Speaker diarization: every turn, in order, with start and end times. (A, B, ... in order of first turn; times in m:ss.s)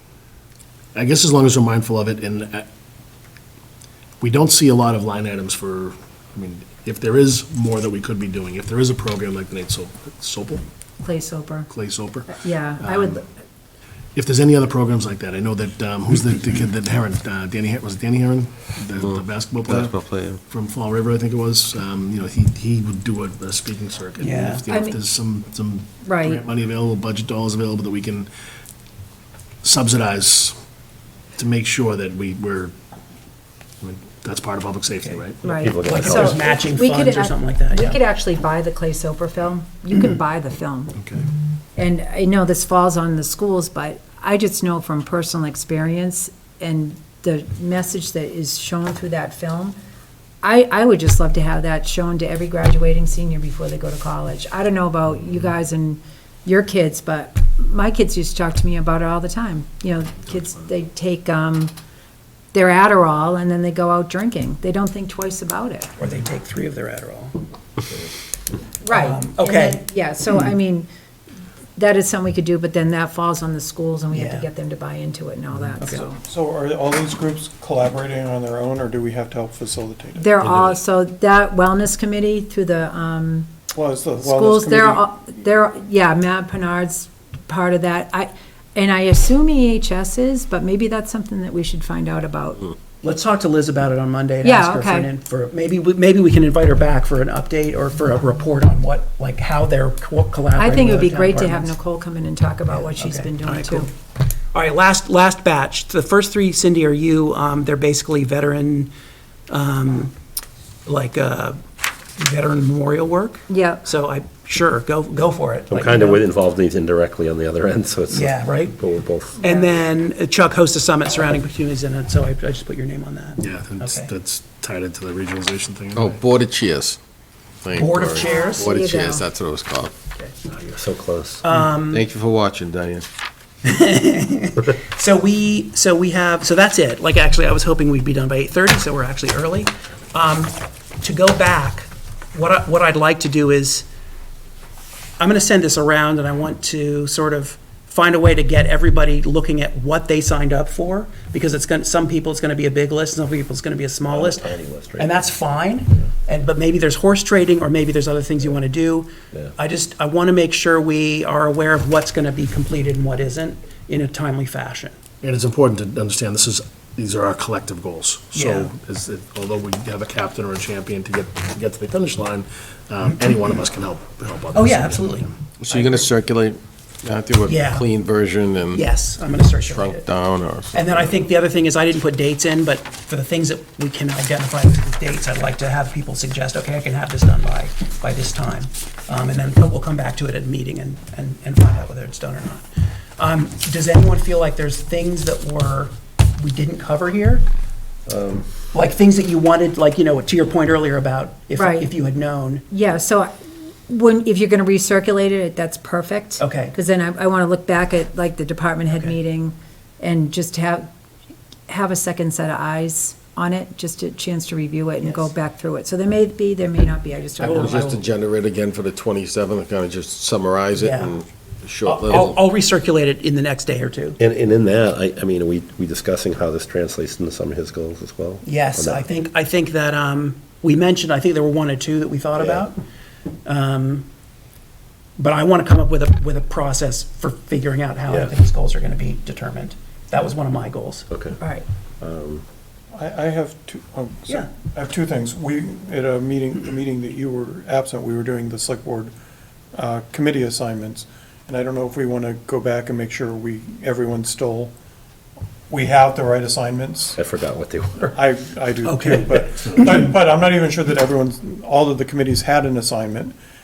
0:00.9-0:02.7 A
0:04.2-0:10.6 A
0:11.0-0:11.7 B
0:11.7-0:13.2 A
0:12.3-0:13.2 B
0:14.1-0:28.3 A
0:19.7-0:20.4 C
0:24.2-0:24.6 D
0:24.7-0:25.0 B
0:26.0-0:26.4 B
0:29.6-0:30.5 A
0:31.4-0:32.7 A
0:33.8-0:36.4 A
0:35.4-0:41.0 B
0:35.6-0:36.4 C
0:35.8-0:38.0 D
0:41.0-0:41.3 A
0:41.8-0:49.8 B
0:50.4-1:01.7 B
1:02.5-1:05.9 B
1:06.0-1:07.4 D
1:08.8-1:10.9 B
1:08.8-1:09.8 D
1:11.8-1:16.2 B
1:14.1-1:14.5 D
1:15.8-1:16.1 D
1:16.2-1:20.3 E
1:20.2-1:23.5 B
1:23.7-1:25.0 E
1:24.2-1:32.6 B
1:33.0-1:41.7 D
1:34.4-1:35.1 B
1:40.6-1:43.9 B
1:42.8-1:43.9 D
1:44.5-1:48.9 D
1:49.5-1:50.1 D
1:50.8-1:51.6 D
1:52.2-1:56.2 D
1:53.5-1:53.8 B
1:55.7-1:59.4 C
1:58.1-1:58.8 D
1:59.4-2:04.1 D
1:59.4-1:59.7 B
2:03.4-2:06.2 A
2:06.0-2:07.0 F
2:07.6-2:09.9 F
2:07.7-2:08.7 D
2:07.8-2:09.2 C
2:08.2-2:09.2 B
2:10.5-2:12.0 C
2:11.4-2:12.0 D
2:11.9-2:13.0 F
2:13.6-2:23.9 D
2:25.2-2:44.9 D
2:34.1-2:35.2 C
2:45.2-2:55.4 A
2:48.3-2:48.7 D
2:54.5-2:56.1 D
2:55.6-2:56.4 C
2:55.8-2:58.7 F
2:57.3-2:58.8 C
2:57.4-2:57.8 D
2:58.7-3:00.1 D
2:59.8-3:00.8 F
3:00.7-3:12.6 D
3:13.2-3:17.4 D
3:18.0-3:18.5 C
3:18.7-3:22.6 D
3:21.6-3:21.9 B
3:22.7-3:23.3 B
3:23.9-3:30.9 B
3:26.4-3:26.8 D
3:31.7-3:37.8 B
3:37.4-3:38.0 D
3:37.6-3:41.0 C
3:40.1-3:42.0 F
3:40.7-3:41.1 D
3:41.7-3:42.3 C
3:41.8-3:44.2 D
3:44.2-3:49.0 C
3:48.4-3:52.8 D
3:52.4-3:52.7 C
3:53.4-3:54.1 D
3:55.2-4:01.1 D
3:58.1-3:58.3 C
4:01.1-4:01.4 C
4:02.0-4:02.4 C
4:02.9-4:09.1 E
4:09.7-4:14.7 E
4:15.7-4:17.2 E
4:17.2-4:18.1 C
4:18.1-4:23.3 E
4:18.8-4:20.1 D